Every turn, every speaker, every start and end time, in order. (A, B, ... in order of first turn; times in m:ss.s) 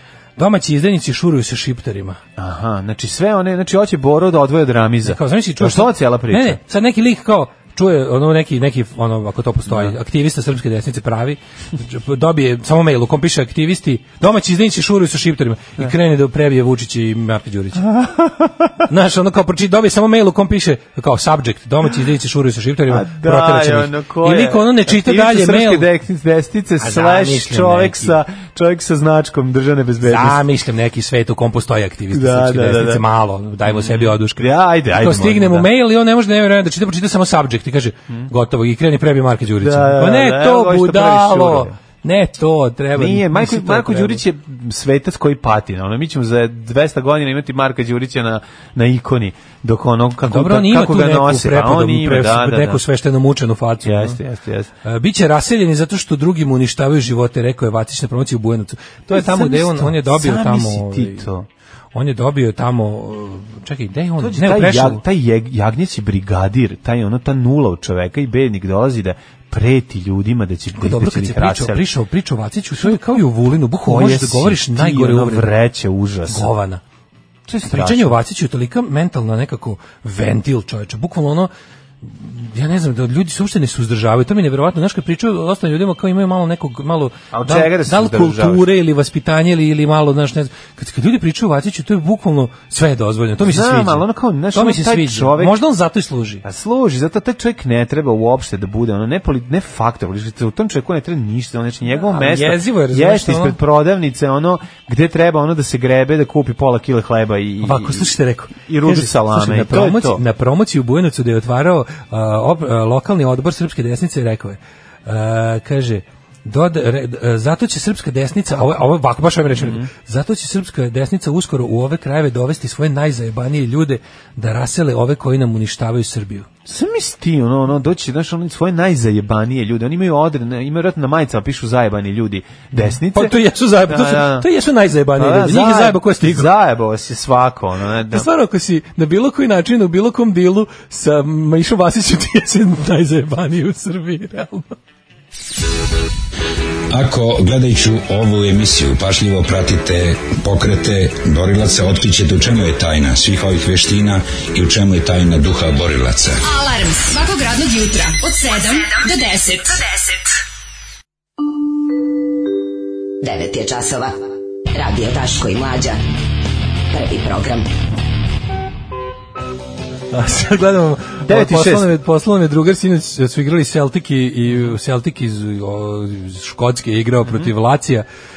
0:00.4-0:02.2 A
0:02.4-0:06.6 B
0:05.0-0:17.9 A
0:09.7-0:09.9 B
0:17.8-0:18.8 B
0:18.9-0:25.9 A
0:22.9-0:30.4 B
0:26.8-0:28.2 A
0:30.0-0:44.2 A
0:32.1-0:33.0 B
0:33.6-0:35.7 B
0:39.6-0:41.8 B
0:42.9-0:52.8 B
0:50.3-0:54.2 A
0:53.8-0:54.7 B
0:54.8-1:01.3 A
0:59.1-1:01.5 B
1:01.9-1:05.0 A
1:04.2-1:11.9 B
1:10.7-1:15.6 A
1:13.7-1:16.5 B
1:16.3-1:16.8 A
1:17.5-1:18.2 B
1:17.6-1:21.5 A
1:22.0-1:36.4 A
1:27.3-1:28.6 B
1:33.4-1:35.6 B
1:36.4-1:50.2 B
1:42.0-1:43.6 A
1:47.6-2:06.5 A
1:59.5-1:59.9 B
2:06.6-2:14.5 B
2:13.1-2:16.5 A
2:15.1-2:18.3 B
2:18.1-2:24.7 A
2:26.9-2:36.4 C
2:36.4-2:40.1 D
2:43.2-2:44.2 E
2:44.7-2:46.0 E
2:46.9-2:47.7 E
2:50.1-2:58.0 A
2:51.3-2:51.9 B